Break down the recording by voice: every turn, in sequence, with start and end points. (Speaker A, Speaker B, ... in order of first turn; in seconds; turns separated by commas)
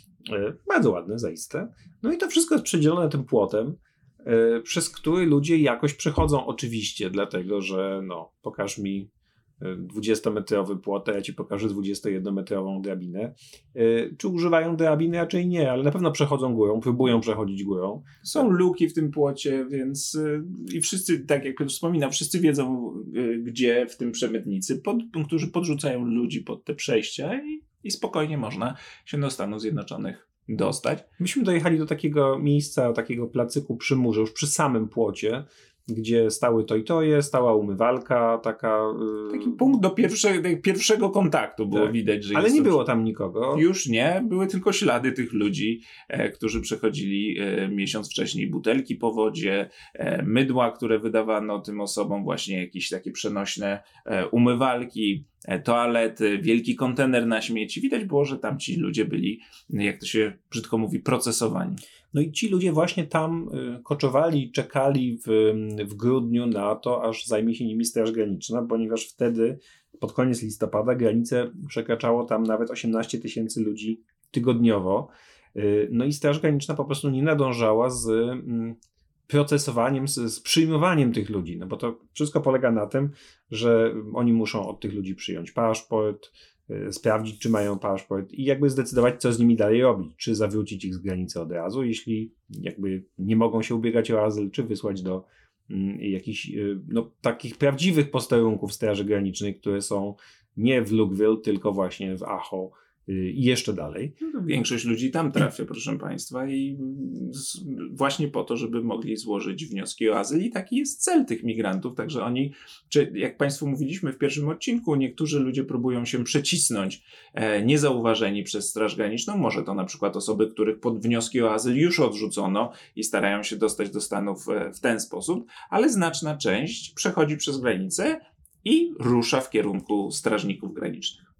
Speaker A: 0.2-18.4, Speaker B: 18.2-31.1, Speaker A: 31.2-39.6, Speaker B: 39.3-42.8, Speaker A: 41.7-43.6, Speaker B: 43.5-61.8, Speaker A: 62.1-104.1, Speaker B: 104.2-131.2